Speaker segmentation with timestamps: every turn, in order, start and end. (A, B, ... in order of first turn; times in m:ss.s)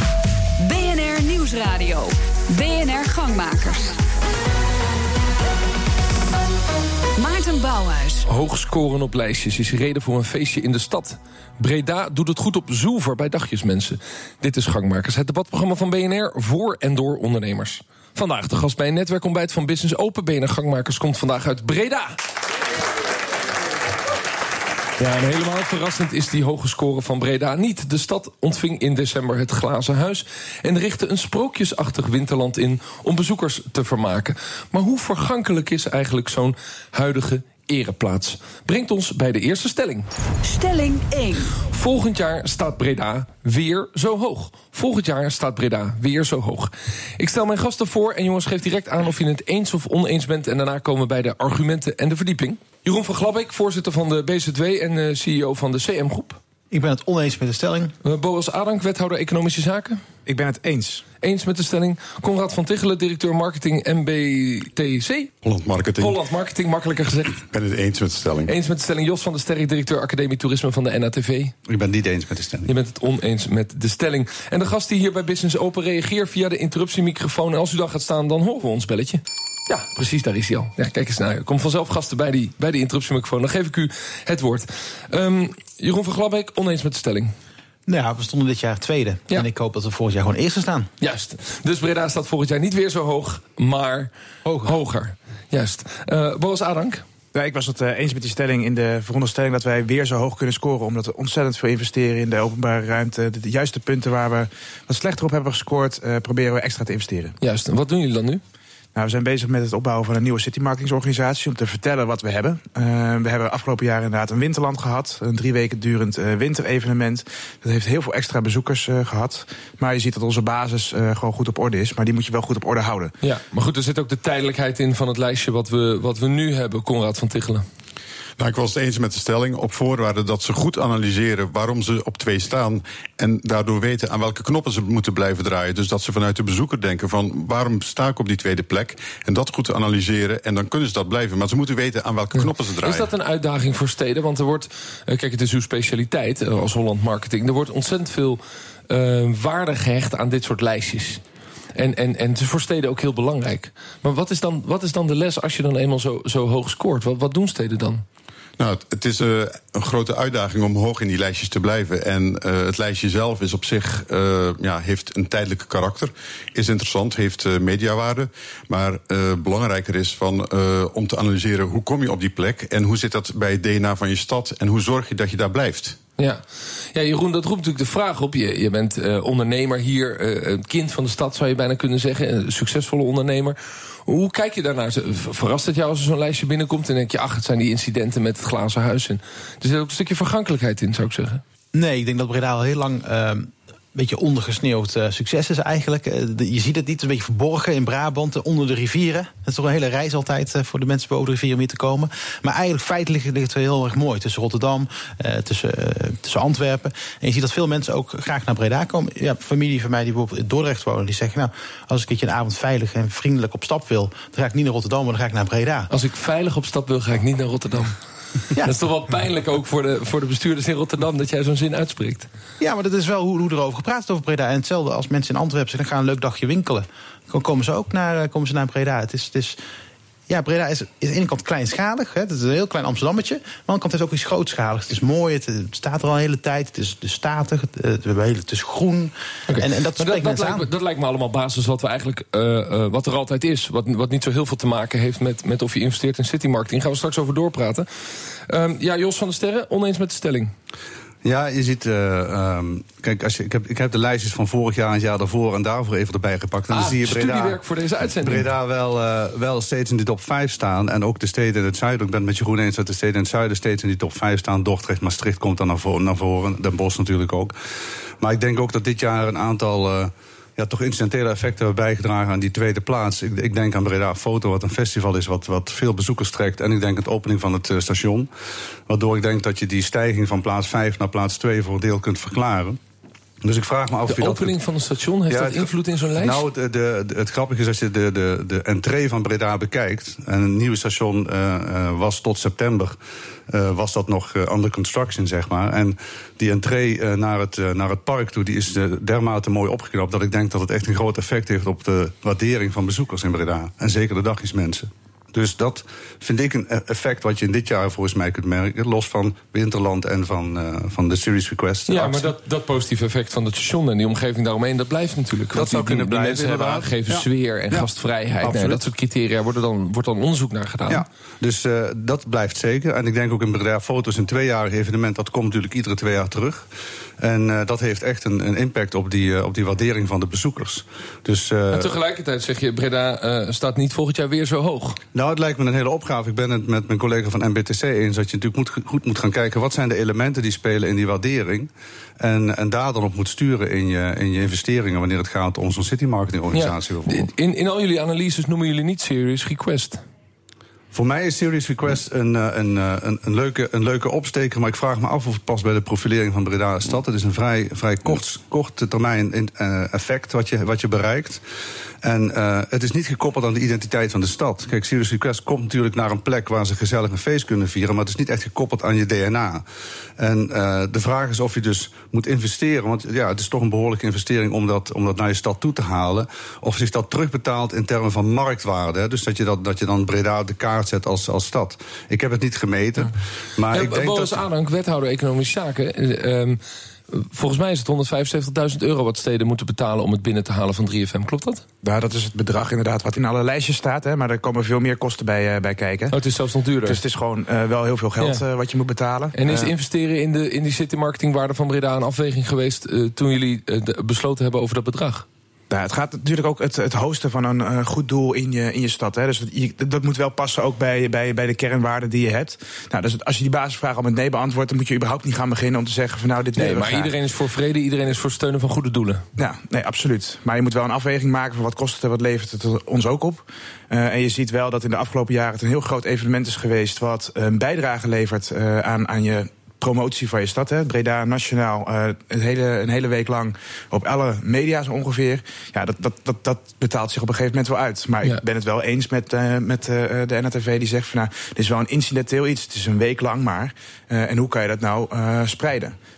0:00.6-0:04.0 A
0:07.2-0:08.2 A
0:08.3-0:22.2 B
0:25.0-0:40.1 B
0:40.4-0:41.5 A
0:41.7-0:56.4 B
0:56.7-0:57.9 C
0:58.0-1:00.0 B
1:00.2-1:01.0 D
1:01.2-1:05.3 B
1:05.4-1:06.2 E
1:06.0-1:07.4 B
1:07.5-1:08.5 E
1:08.4-1:11.5 B
1:11.6-1:12.7 F
1:12.6-1:27.3 B
1:27.9-1:30.9 C
1:31.0-1:34.1 B
1:34.4-1:34.8 C
1:34.6-1:37.0 B
1:37.3-1:47.3 D
1:47.4-1:48.4 B
1:48.9-2:03.1 D
2:03.2-2:07.6 B
2:08.4-2:23.1 E
2:22.3-2:31.2 B
2:31.7-2:38.0 B
2:38.6-2:56.0 E
2:56.9-3:11.4 B
3:11.7-3:35.9 C
3:35.9-3:37.9 B
3:38.6-3:42.3 B
3:42.6-3:49.6 C
3:50.3-4:00.7 C
3:59.5-4:07.9 B
4:08.5-4:10.5 B
4:11.2-4:17.6 F
4:16.7-4:18.5 B
4:18.2-4:27.5 F
4:28.2-4:38.3 F
4:38.9-4:42.8 F
4:43.4-4:44.6 F
4:44.1-4:46.4 B
4:45.3-4:52.9 F
4:53.5-5:12.3 F
5:11.9-5:21.0 B
5:15.5-5:17.9 F
5:18.4-5:18.8 F
5:20.9-5:26.6 F
5:27.2-5:31.9 F
5:31.7-5:35.0 B
5:35.1-5:47.3 F
5:46.5-5:50.0 B
5:50.9-6:01.4 F
6:02.0-6:09.6 F
6:10.2-6:24.4 F
6:23.7-6:26.6 B
6:27.1-6:31.6 B
6:31.8-6:36.1 D
6:36.1-6:37.0 B
6:36.8-6:39.7 D
6:39.3-6:45.2 B
6:45.7-6:57.1 D
6:56.6-6:59.2 B
6:59.4-7:26.0 D